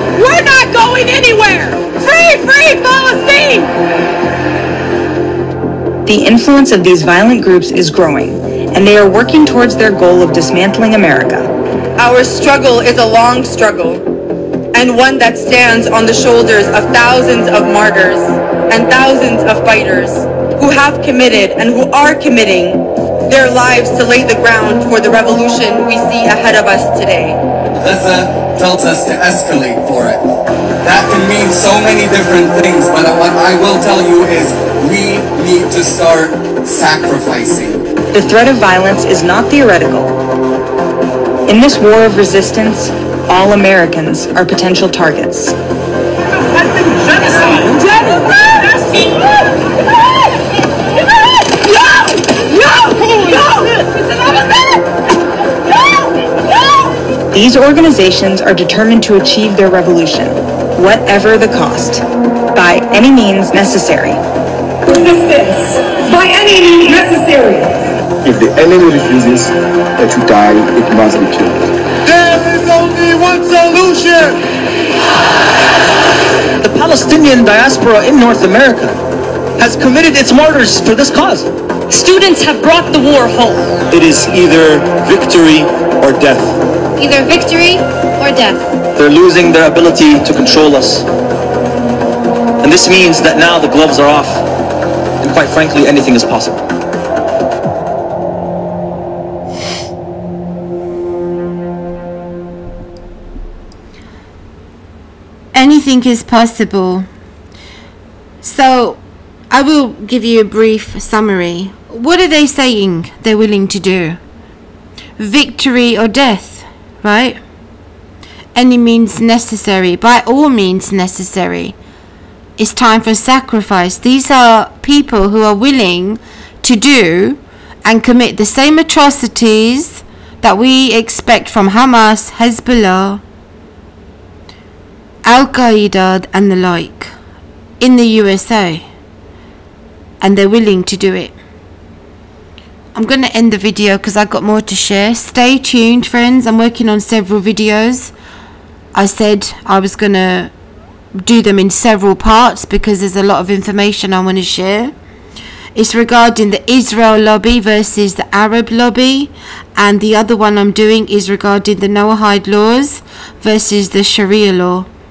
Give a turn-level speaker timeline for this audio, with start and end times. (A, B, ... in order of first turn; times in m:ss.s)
0:00.2-0:03.7 A
0:06.1-0:11.5 B
0:12.0-0:14.0 C
0:14.7-0:27.4 C
0:27.8-0:30.2 D
0:30.8-0:37.8 D
0:38.1-0:40.2 B
0:41.5-0:45.6 B
0:57.3-1:04.2 B
1:06.2-1:06.5 A
1:08.2-1:11.6 E
1:12.1-1:14.4 F
1:16.6-1:19.0 G
1:19.6-1:21.5 G
1:21.9-1:23.6 H
1:23.9-1:26.6 I
1:27.0-1:28.7 H
1:29.0-1:31.1 G
1:32.6-1:34.4 G
1:35.2-1:36.6 G
1:45.5-1:47.1 J
1:48.4-1:49.0 J
1:49.5-1:54.2 J
1:55.2-1:57.4 J
1:58.6-2:01.8 J
2:02.6-2:13.2 J
2:15.2-2:17.1 J
2:17.8-2:18.8 J
2:20.2-2:21.4 J
2:22.9-2:28.1 J
2:29.0-2:30.5 J
2:31.2-2:34.9 J
2:35.8-2:44.9 J